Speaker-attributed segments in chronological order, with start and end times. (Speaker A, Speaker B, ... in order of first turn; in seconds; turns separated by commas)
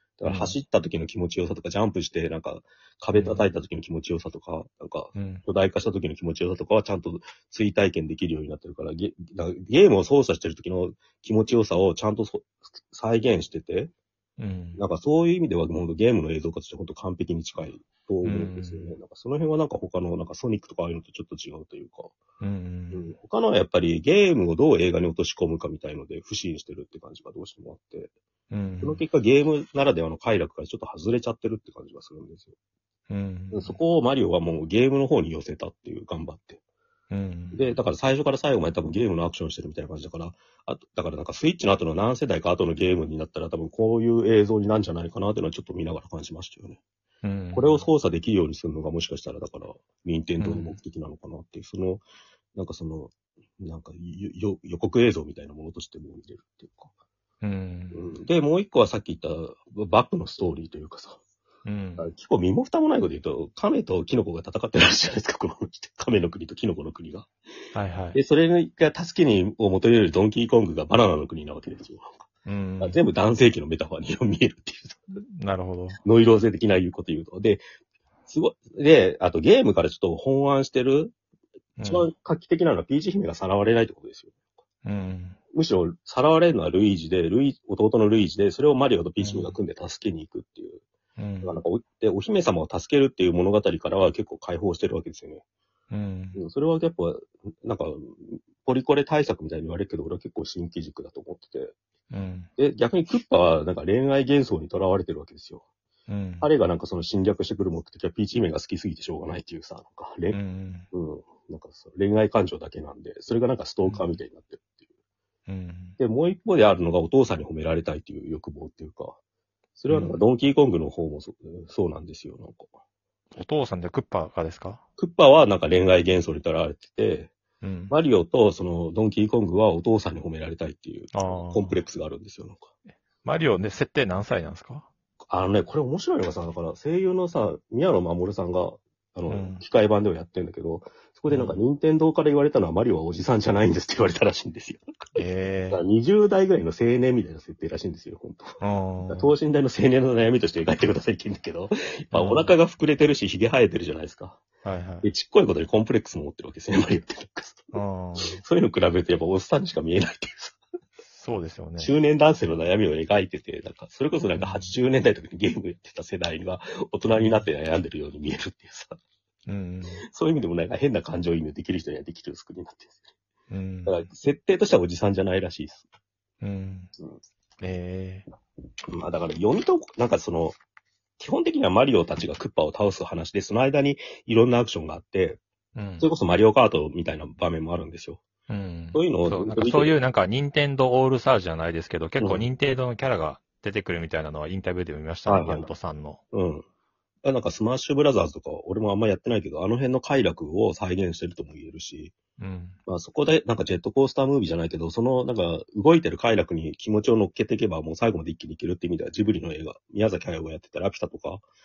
Speaker A: 0.2-13.9, Speaker B: 0.2-0.6, Speaker B: 3.1-3.4, Speaker B: 5.1-5.4, Speaker B: 14.4-14.8, Speaker A: 14.8-22.1, Speaker B: 18.2-18.9, Speaker B: 22.4-23.1, Speaker A: 22.9-28.1, Speaker B: 28.5-29.0, Speaker A: 28.8-32.5, Speaker B: 33.1-33.8, Speaker A: 33.5-36.6, Speaker B: 37.1-37.7, Speaker A: 37.5-46.8, Speaker B: 47.2-47.8, Speaker A: 47.5-52.0, Speaker B: 50.4-50.8, Speaker A: 52.5-56.9, Speaker B: 57.4-58.0, Speaker A: 57.9-61.2, Speaker B: 61.6-62.1, Speaker A: 62.0-67.3, Speaker B: 67.7-68.2, Speaker A: 68.1-72.2, Speaker B: 72.5-73.0, Speaker A: 72.8-75.2, Speaker B: 75.3-76.0, Speaker A: 76.0-77.6, Speaker A: 78.3-81.1, Speaker B: 81.8-82.1, Speaker A: 81.8-84.3, Speaker B: 84.8-85.4, Speaker A: 85.5-90.8, Speaker B: 89.2-89.5, Speaker B: 91.2-91.5, Speaker A: 91.4-95.4, Speaker B: 95.9-96.4, Speaker A: 96.3-101.7, Speaker B: 102.1-102.5, Speaker A: 102.6-105.6, Speaker B: 106.1-106.5, Speaker A: 106.4-110.4, Speaker B: 110.3-110.9, Speaker A: 110.9-114.7, Speaker B: 115.5-116.0, Speaker A: 116.0-119.2, Speaker A: 119.8-122.7, Speaker B: 119.9-120.2, Speaker B: 123.3-124.8, Speaker A: 125.0-127.3, Speaker B: 127.6-127.9, Speaker A: 127.9-132.7, Speaker B: 131.1-131.8, Speaker B: 133.2-134.9, Speaker A: 135.3-148.5, Speaker B: 139.3-139.6, Speaker B: 141.3-141.6, Speaker B: 145.2-145.8, Speaker B: 148.6-149.3, Speaker A: 149.0-154.4, Speaker B: 152.1-152.5, Speaker B: 154.6-155.1, Speaker A: 155.0-160.6, Speaker B: 157.7-158.4, Speaker B: 161.1-161.9, Speaker A: 161.8-169.0, Speaker B: 164.3-164.7, Speaker B: 167.2-167.4, Speaker B: 169.4-170.0, Speaker A: 170.1-173.0, Speaker B: 173.5-174.0, Speaker A: 173.8-175.8, Speaker B: 176.4-176.9, Speaker B: 177.6-178.2, Speaker A: 178.9-180.6, Speaker A: 181.2-185.4, Speaker B: 185.7-186.1, Speaker A: 186.0-188.2, Speaker B: 188.5-196.2, Speaker A: 188.9-190.0, Speaker A: 192.2-192.5, Speaker A: 195.2-195.7, Speaker A: 196.3-196.6, Speaker A: 197.2-202.1, Speaker B: 202.4-202.8, Speaker A: 202.9-211.4